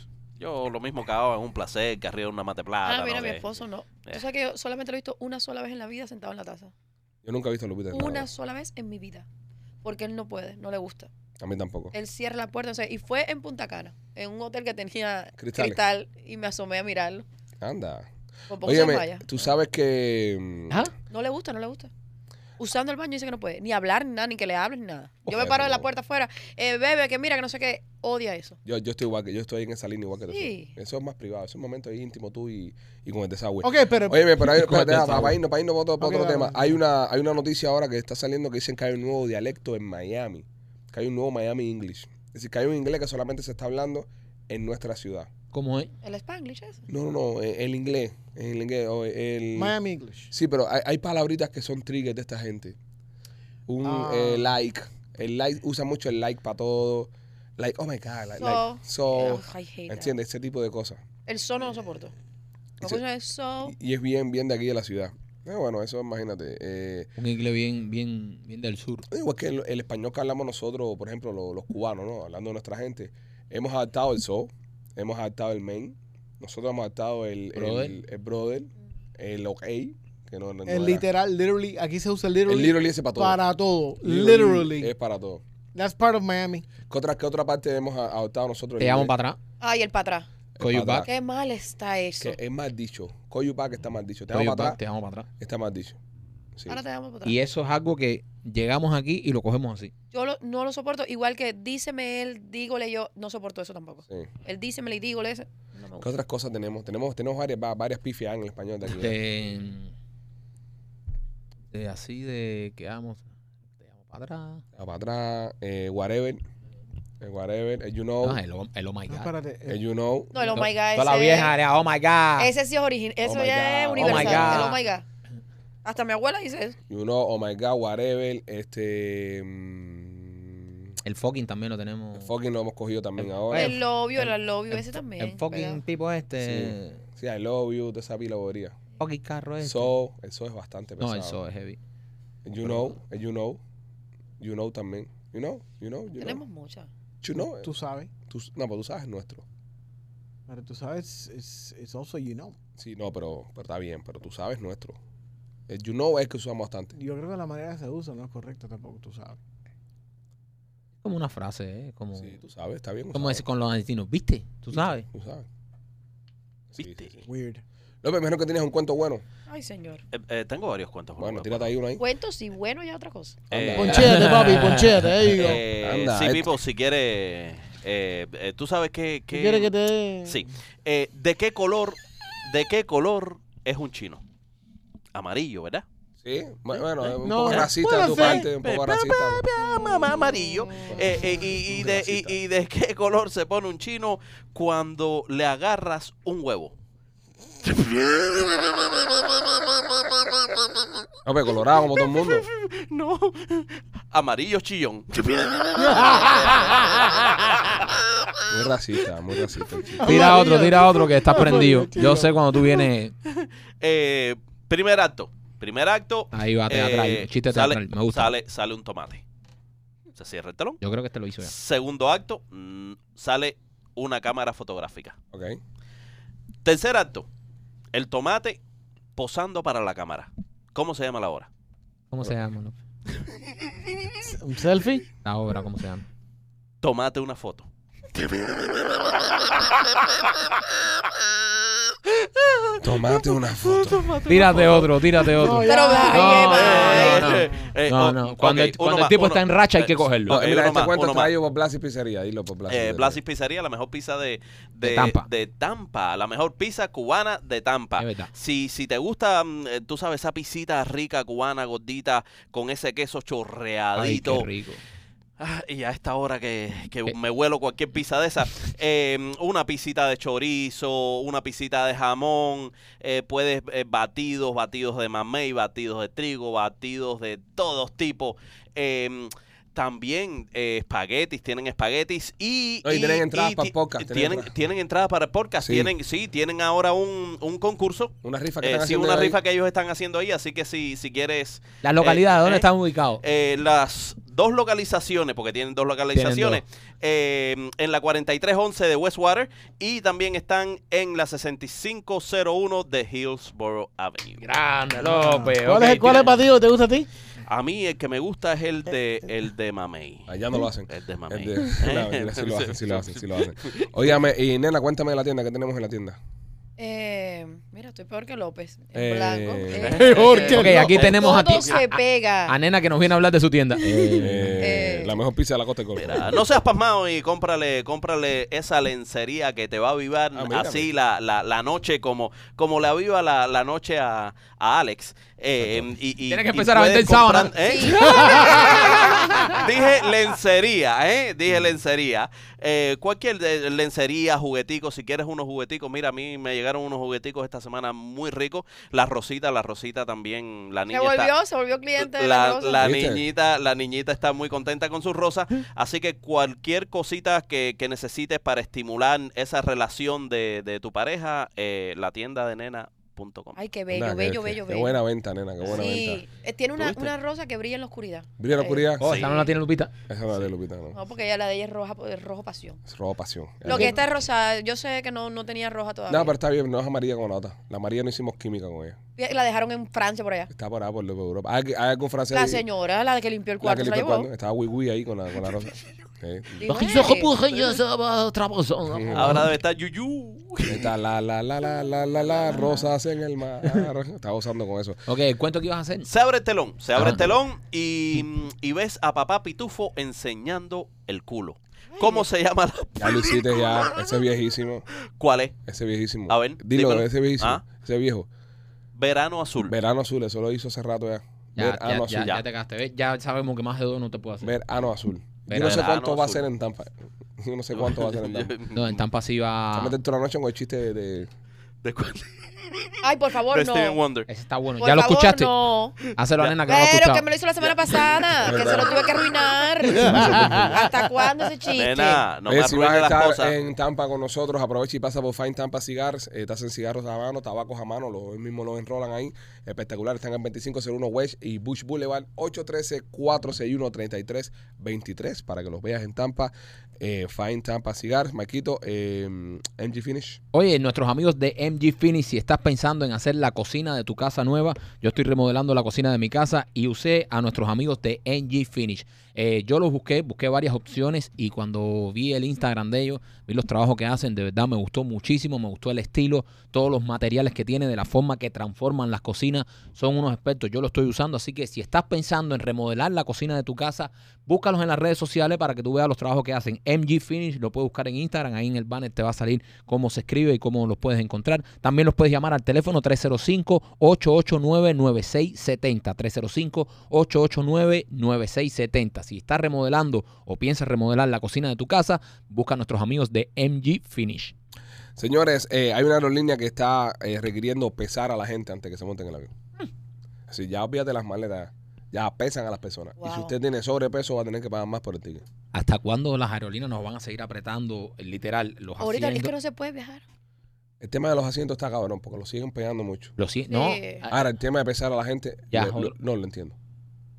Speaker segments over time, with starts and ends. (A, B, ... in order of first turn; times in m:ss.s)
0:00.4-0:03.4 A
0:02.8-0:06.7 B
0:07.2-0:08.3 C
0:07.9-0:09.2 B
0:09.8-0:11.1 B
0:11.4-0:11.9 C
0:11.9-0:17.2 B
0:15.4-0:15.8 C
0:17.6-0:18.1 C
0:18.5-0:19.2 B
0:18.6-0:20.8 C
0:21.1-0:21.9 B
0:22.6-0:28.6 B
0:25.3-0:25.9 C
0:28.6-0:45.3 C
0:30.3-0:30.7 B
0:33.6-0:34.3 D
0:34.4-0:35.4 E
0:36.0-0:36.8 D
0:45.5-0:45.9 E
0:46.0-0:46.8 B
0:46.9-0:49.7 C
0:49.6-0:50.3 D
0:50.3-0:52.8 C
0:53.7-1:01.0 C
0:53.8-0:54.5 D
0:58.4-1:00.1 B
1:01.3-1:02.1 B
1:02.8-1:03.7 B
1:03.6-1:07.1 C
1:07.2-1:09.0 E
1:09.1-1:21.0 C
1:17.5-1:18.0 E
1:20.6-1:24.9 D
1:22.5-1:23.4 C
1:24.0-1:25.4 C
1:25.7-1:26.6 D
1:26.9-1:29.1 C
1:28.8-1:29.4 E
1:29.6-1:30.3 B
1:30.6-1:31.1 C
1:30.6-1:31.1 E
1:31.0-1:32.4 B
1:32.2-1:34.8 C
1:34.3-1:35.3 E
1:35.4-1:36.0 C
1:36.7-1:37.4 B
1:37.2-1:39.9 E
1:40.1-1:46.1 B
1:46.0-1:49.2 C
1:48.8-1:49.9 E
1:51.7-1:53.2 E
1:53.8-1:54.6 E
1:54.8-1:56.4 C
1:57.2-1:58.4 C
1:58.2-1:59.3 E
1:59.1-1:59.8 D
1:59.7-2:00.4 C
2:00.3-2:01.5 B
2:00.4-2:02.5 E
2:02.4-2:05.0 B
2:03.2-2:04.7 C
2:04.0-2:04.8 E
2:05.8-2:06.8 B
2:06.9-2:10.7 C
2:11.0-2:12.3 E
2:12.1-2:13.8 C
2:13.2-2:17.0 E
2:13.5-2:15.8 B
2:16.4-2:18.8 C
2:19.0-2:19.9 E
2:19.6-2:21.4 C
2:21.0-2:21.8 E
2:22.4-2:23.6 C
2:22.6-2:22.9 E
2:24.4-2:26.4 C
2:26.2-2:26.9 B
2:27.2-2:27.7 C
2:27.4-2:28.1 D
2:28.3-2:29.4 C
2:30.5-2:32.6 D
2:32.8-2:35.0 C
2:35.7-2:36.9 C
2:36.9-2:39.4 D
2:41.0-2:42.4 E
2:42.2-2:43.4 C
2:43.1-2:45.0 E
2:44.7-2:45.4 C
2:46.7-2:47.2 C
2:46.8-2:47.2 A
2:47.2-2:47.6 D
2:48.0-2:49.2 C
2:49.5-2:50.0 B
2:50.1-2:51.7 A
2:51.2-2:52.0 C
2:52.0-2:53.4 B
2:53.5-2:54.1 C
2:53.5-2:54.0 A
2:53.7-2:55.6 D
2:53.9-2:55.3 E
2:55.3-2:59.7 A
2:55.8-2:56.5 C
2:59.3-3:00.5 D
3:00.2-3:04.2 A
3:05.1-3:05.8 A
3:06.2-3:09.4 C
3:07.2-3:08.5 D
3:07.6-3:16.7 A
3:09.5-3:10.9 D
3:11.7-3:12.4 C
3:17.8-3:18.3 A
3:21.2-3:22.4 C
3:22.1-3:27.8 A
3:25.8-3:26.9 D
3:28.4-3:30.1 C
3:30.0-3:32.3 D
3:30.0-3:33.1 E
3:33.8-3:39.2 A
3:36.3-3:38.3 E
3:40.1-3:40.8 A
3:40.8-3:41.5 E
3:41.4-3:45.2 A
3:45.3-3:45.6 C
3:46.6-3:47.3 A
3:47.9-3:48.6 A
3:49.2-3:51.5 A
3:52.1-3:52.8 E
3:54.2-3:55.0 D
3:55.2-3:56.0 E
3:56.8-3:59.0 A
4:02.4-4:05.5 A
4:02.8-4:04.1 C
4:04.3-4:10.4 E
4:05.3-4:06.6 D
4:05.6-4:07.4 B
4:06.4-4:11.3 A
4:10.3-4:13.2 C
4:12.7-4:24.5 A
4:14.8-4:15.2 E
4:18.0-4:18.3 E
4:24.0-4:24.8 E
4:25.4-4:52.7 A
4:42.8-4:44.5 C
4:45.6-4:45.9 C
4:48.2-4:49.4 C
4:51.8-4:53.2 E
4:53.2-5:04.4 A
4:56.1-4:56.6 E
5:04.4-5:06.3 E
5:05.0-5:07.1 D
5:06.0-5:06.4 A
5:07.5-5:10.3 A
5:10.3-5:16.2 C
5:10.9-5:14.1 A
5:16.8-5:22.5 B
5:18.9-5:20.0 C
5:19.8-5:21.8 A
5:19.8-5:21.1 D
5:20.4-5:24.6 E
5:24.1-5:26.3 C
5:24.6-5:25.2 B
5:25.9-5:51.3 A
5:30.3-5:30.9 C
5:36.3-5:39.6 E
5:37.6-5:39.6 B
5:50.9-5:52.9 B
5:52.0-6:03.6 A
5:52.8-5:53.2 C
6:03.6-6:05.0 B
6:03.9-6:06.2 C
6:05.7-6:09.5 B
6:06.8-6:07.1 A
6:08.4-6:09.1 C
6:09.0-6:09.4 A
6:09.0-6:09.9 E
6:10.1-6:11.0 C
6:10.9-6:12.8 B
6:12.9-6:14.0 C
6:13.6-6:16.3 B
6:16.1-6:19.0 C
6:19.2-6:20.5 B
6:20.5-6:22.6 C
6:22.3-6:24.3 B
6:23.6-6:26.7 C
6:26.6-6:27.7 B
6:26.6-6:29.5 E
6:28.9-6:29.5 C
6:29.1-6:30.8 A
6:30.6-6:35.1 C
6:35.1-6:36.1 E
6:36.0-6:43.9 A
6:36.9-6:37.4 E
6:41.9-6:42.3 B
6:43.0-6:44.8 C
6:45.2-6:45.6 A
6:45.6-6:48.3 C
6:46.3-6:47.6 A
6:49.0-6:49.7 A
6:49.6-6:52.3 C
6:51.6-6:54.5 E
6:52.1-6:52.4 A
6:54.4-6:58.6 C
6:55.5-6:55.8 E
6:55.5-6:56.5 A
6:57.8-6:58.8 A
6:58.7-7:00.0 E
6:59.7-7:01.3 C
7:01.8-7:02.5 A
7:03.0-7:04.0 B
7:03.5-7:04.3 A
7:04.3-7:05.6 E
7:04.8-7:05.9 B
7:06.2-7:07.2 E
7:06.4-7:06.7 A
7:06.7-7:12.2 B
7:07.6-7:08.7 A
7:08.4-7:09.0 C
7:10.1-7:10.8 C
7:10.1-7:10.6 D
7:11.7-7:13.5 A
7:12.5-7:30.4 C
7:30.5-8:14.5 E
8:15.2-8:19.5 C
8:20.5-8:25.4 C
8:23.2-8:23.6 B
8:25.7-8:29.5 E
8:29.0-8:30.2 B
8:31.0-8:33.4 C
8:33.4-8:34.4 E
8:33.7-8:34.2 B
8:34.3-8:36.8 C
8:35.7-8:36.1 E